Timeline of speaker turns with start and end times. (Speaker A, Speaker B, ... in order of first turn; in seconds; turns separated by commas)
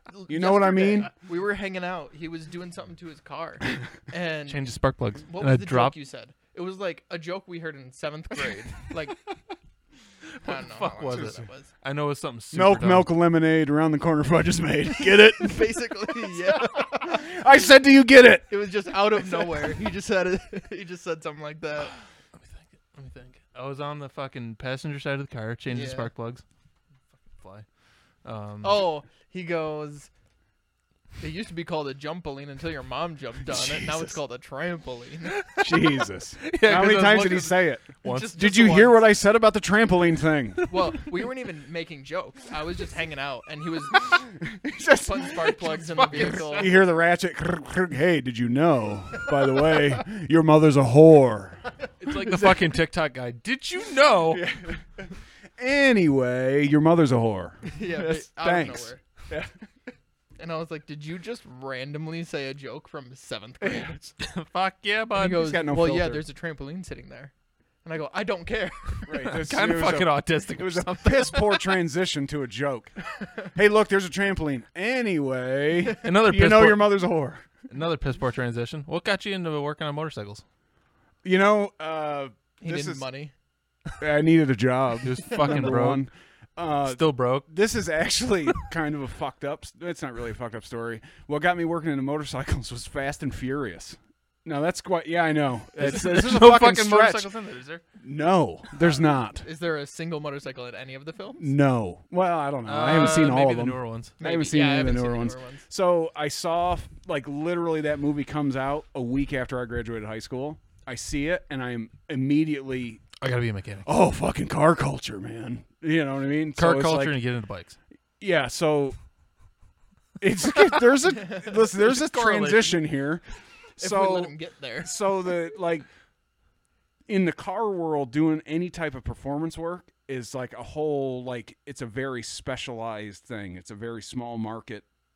Speaker A: 0.1-4.7, Speaker B: 0.3-1.1, Speaker C: 4.5-6.0, Speaker A: 5.3-9.3, Speaker A: 10.4-11.7, Speaker C: 10.4-13.1, Speaker B: 11.1-11.4, Speaker B: 12.5-18.5, Speaker A: 15.4-17.4, Speaker A: 18.5-21.9, Speaker C: 22.3-26.4, Speaker A: 25.7-26.1, Speaker C: 27.3-27.7, Speaker C: 28.2-28.8, Speaker A: 28.6-30.1, Speaker A: 31.2-35.5, Speaker B: 33.5-34.0, Speaker C: 35.3-38.4, Speaker B: 35.6-40.7, Speaker A: 38.0-39.0, Speaker A: 40.7-44.3, Speaker B: 44.2-45.5, Speaker A: 45.0-46.8, Speaker C: 45.4-46.8, Speaker B: 46.1-52.7, Speaker C: 52.0-54.5, Speaker B: 54.3-59.5, Speaker A: 57.7-59.0, Speaker A: 60.4-64.0, Speaker B: 63.6-64.1, Speaker C: 64.2-65.5, Speaker A: 65.1-67.3, Speaker B: 65.3-66.2, Speaker A: 67.8-69.3, Speaker B: 69.0-77.5, Speaker C: 69.2-71.5, Speaker C: 76.0-77.0, Speaker C: 77.7-80.4, Speaker B: 81.2-83.0, Speaker A: 82.6-83.3, Speaker B: 84.0-97.3, Speaker C: 85.0-86.0, Speaker C: 86.9-87.5, Speaker C: 95.8-97.8, Speaker B: 98.0-99.5, Speaker A: 98.8-101.5, Speaker B: 101.4-113.1, Speaker C: 102.6-104.2, Speaker A: 104.2-105.7, Speaker C: 113.2-113.9, Speaker B: 113.8-117.2, Speaker C: 116.5-117.8, Speaker B: 118.2-119.0, Speaker B: 120.2-123.3, Speaker C: 121.8-122.8, Speaker B: 123.8-125.9, Speaker A: 123.8-125.0, Speaker B: 127.1-134.8